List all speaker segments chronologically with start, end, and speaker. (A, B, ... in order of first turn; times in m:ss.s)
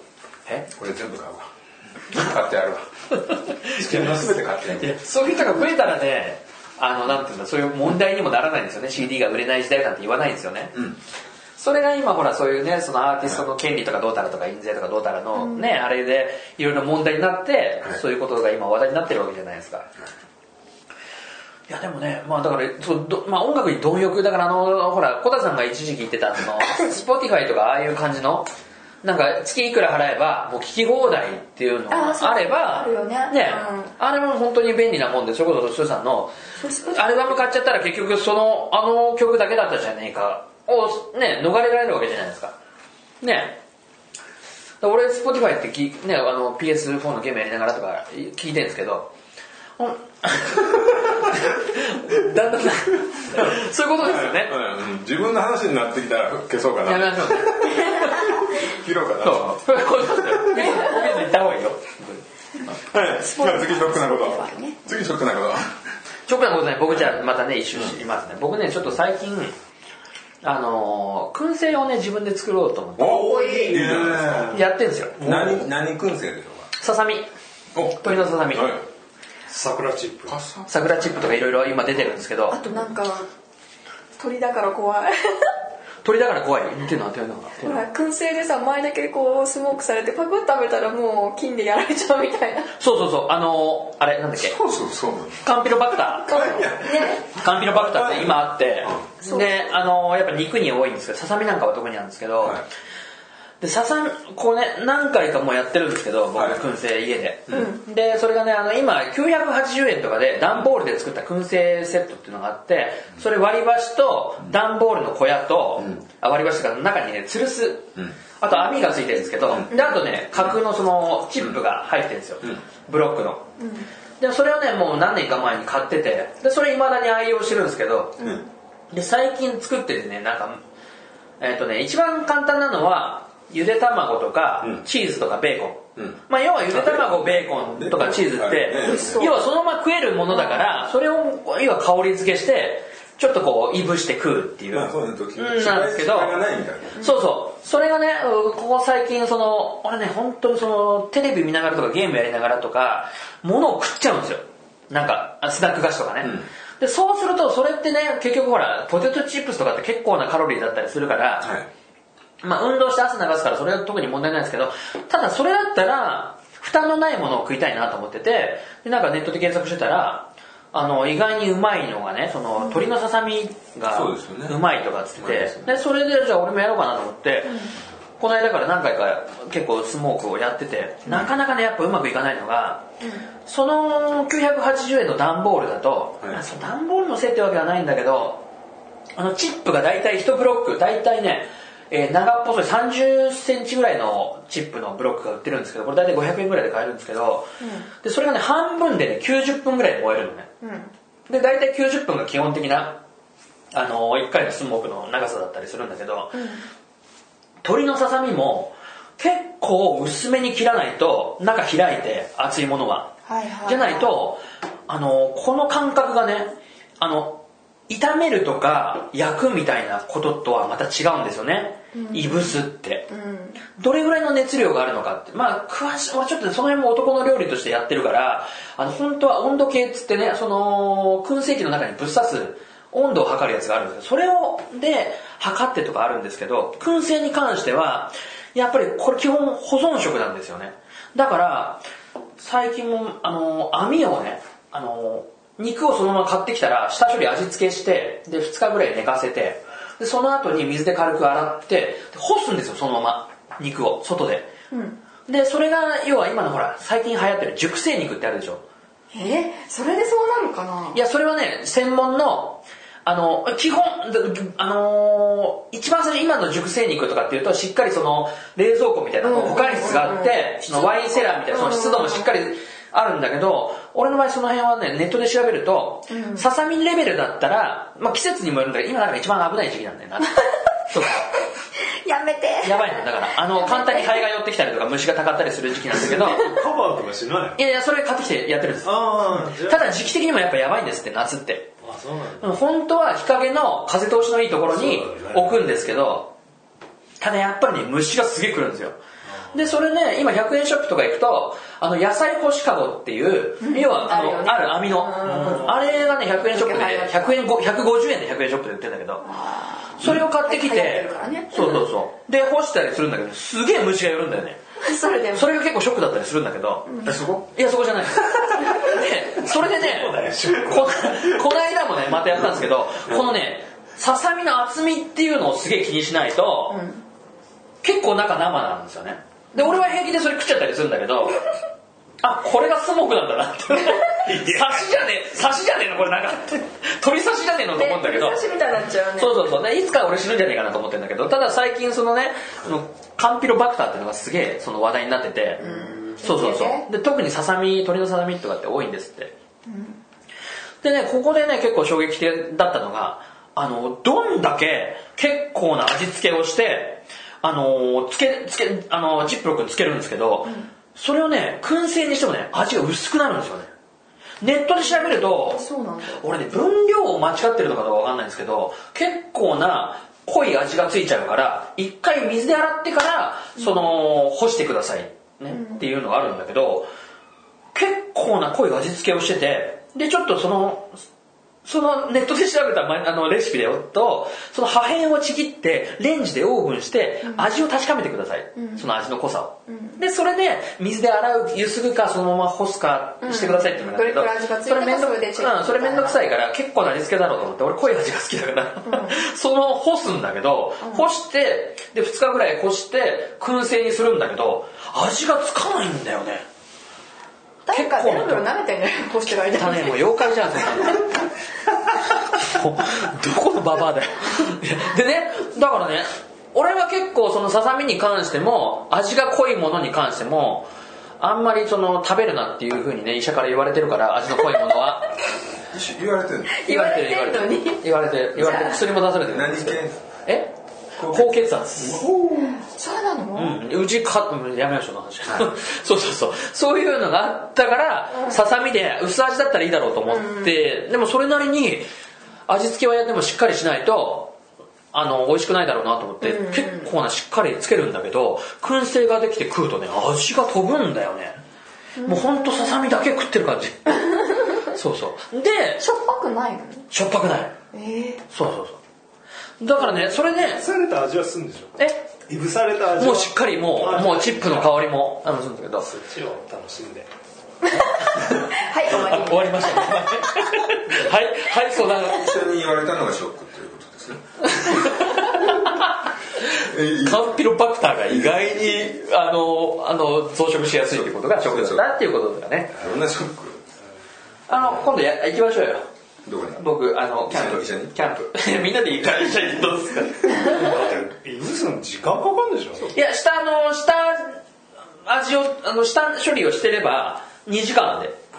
0:00.7-0:01.5 A
0:02.1-0:02.9 A
0:03.3-0:10.7 B
0:03.7-0:04.9 A
0:11.6-0:19.9 B
0:15.3-0:15.7 C
0:21.7-0:28.5 B
0:29.0-0:42.6 B
0:31.9-0:33.9 C
0:36.6-0:37.4 C
0:43.2-0:43.6 B
0:44.8-0:49.1 B
0:49.8-0:54.5 B
0:53.3-1:00.6 A
0:56.8-0:58.3 B
0:59.2-1:02.2 B
1:00.6-1:01.0 C
1:02.7-1:05.8 A
1:03.2-1:04.8 C
1:06.3-1:09.5 B
1:10.4-1:13.2 B
1:13.0-1:14.6 A
1:13.0-1:15.7 D
1:13.1-1:13.9 C
1:14.5-1:15.2 B
1:15.2-1:16.7 A
1:16.8-1:17.3 B
1:17.7-1:18.8 A
1:18.0-1:18.8 B
1:19.5-1:20.4 D
1:20.3-1:21.2 A
1:20.7-1:22.6 B
1:22.5-1:23.3 C
1:24.2-1:25.5 C
1:26.0-1:27.8 B
1:27.6-1:32.7 C
1:32.8-1:34.6 B
1:34.4-1:35.4 A
1:35.4-1:36.5 B
1:36.1-1:39.1 A
1:36.3-1:37.2 C
1:37.3-1:42.6 B
1:39.2-1:39.7 C
1:43.6-2:03.5 B
1:46.3-1:46.6 A
1:47.5-1:47.8 C
1:59.7-2:00.0 C
2:03.6-2:03.9 C
2:04.2-2:08.2 B
2:08.2-2:08.5 C
2:08.9-2:10.6 B
2:11.4-2:26.4 B
2:16.0-2:19.3 A
2:18.8-2:19.4 C
2:20.3-2:20.7 C
2:24.7-2:26.9 A
2:27.0-2:41.5 B
2:36.2-2:36.5 A
2:41.4-2:41.7 A
2:42.4-2:57.7 B
2:52.6-2:52.9 C
2:53.9-2:54.6 A
2:55.2-2:55.7 A
2:57.4-2:57.7 C
2:58.2-3:02.9 B
3:03.0-3:03.3 C
3:03.4-3:08.4 B
3:09.2-3:20.5 B
3:17.6-3:17.9 C
3:20.6-3:20.9 C
3:21.3-3:23.0 B
3:23.7-3:26.4 B
3:26.3-3:26.6 C
3:27.6-3:43.1 B
3:33.2-3:34.1 C
3:41.9-3:43.6 C
3:43.8-4:01.8 B
4:02.4-4:14.5 B
4:14.7-4:15.0 C
4:15.2-4:18.6 B
4:19.1-4:21.0 C
4:20.9-4:41.3 B
4:29.2-4:32.3 C
4:36.1-4:36.5 C
4:41.9-4:44.2 C
4:42.6-4:46.5 B
4:45.9-4:47.6 D
4:47.6-4:51.7 B
4:48.8-4:49.9 D
4:51.8-4:52.6 D
4:52.4-4:56.3 B
4:54.7-4:55.6 D
4:57.2-4:59.0 B
4:59.2-4:59.7 D
4:59.5-5:09.2 B
5:03.6-5:05.9 C
5:06.4-5:07.4 C
5:09.2-5:11.8 C
5:10.0-5:14.6 B
5:14.8-5:15.5 C
5:15.3-5:16.9 B
5:16.8-5:17.2 C
5:17.0-5:17.5 A
5:17.5-5:26.8 B
5:19.4-5:21.2 D
5:26.7-5:27.0 C
5:27.8-5:31.4 B
5:29.5-5:29.9 C
5:32.2-5:38.4 B
5:34.3-5:34.8 D
5:37.7-5:39.4 C
5:39.2-5:49.3 B
5:45.6-5:46.9 C
5:49.6-5:50.0 C
5:50.8-6:03.7 B
6:00.4-6:00.7 C
6:04.4-6:05.6 B
6:04.8-6:06.2 C
6:06.2-6:16.9 B
6:15.5-6:15.8 C
6:17.7-6:21.0 B
6:21.6-6:46.4 B
6:27.2-6:27.5 C
6:28.6-6:28.8 C
6:29.7-6:30.0 C
6:33.2-6:36.2 C
6:38.8-6:39.2 C
6:40.8-6:41.0 C
6:47.6-6:51.0 C
6:47.7-6:48.5 B
6:49.5-6:51.1 B
6:52.3-7:05.1 B
7:05.7-7:06.6 A
7:06.5-7:07.8 C
7:06.6-7:12.0 B
7:08.3-7:08.8 C
7:09.2-7:10.0 A
7:11.0-7:12.6 A
7:12.4-7:13.6 C
7:13.3-7:21.9 B
7:18.1-7:18.4 C
7:20.1-7:20.5 C
7:22.5-7:24.4 B
7:24.9-7:31.4 B
7:26.2-7:26.9 C
7:32.0-7:32.8 C
7:32.0-7:35.8 B
7:34.2-7:34.6 C
7:35.8-7:36.9 C
7:36.9-7:37.5 B
7:37.7-7:38.2 C
7:38.3-7:38.8 B
7:39.6-7:40.6 B
7:40.4-7:44.8 D
7:41.8-7:42.1 B
7:43.0-7:45.9 B
7:45.8-7:47.1 D
7:47.7-7:50.1 C
7:48.8-7:52.3 B
7:52.0-7:55.0 A
7:54.5-8:02.7 B
7:56.5-7:57.3 A
7:58.1-7:58.5 A
8:00.9-8:01.8 A
8:02.7-8:03.6 A
8:04.5-8:05.8 B
8:06.2-8:06.6 A
8:06.5-8:10.7 B
8:07.3-8:07.9 A
8:10.4-8:12.9 D
8:12.9-8:14.4 B
8:15.0-8:18.2 B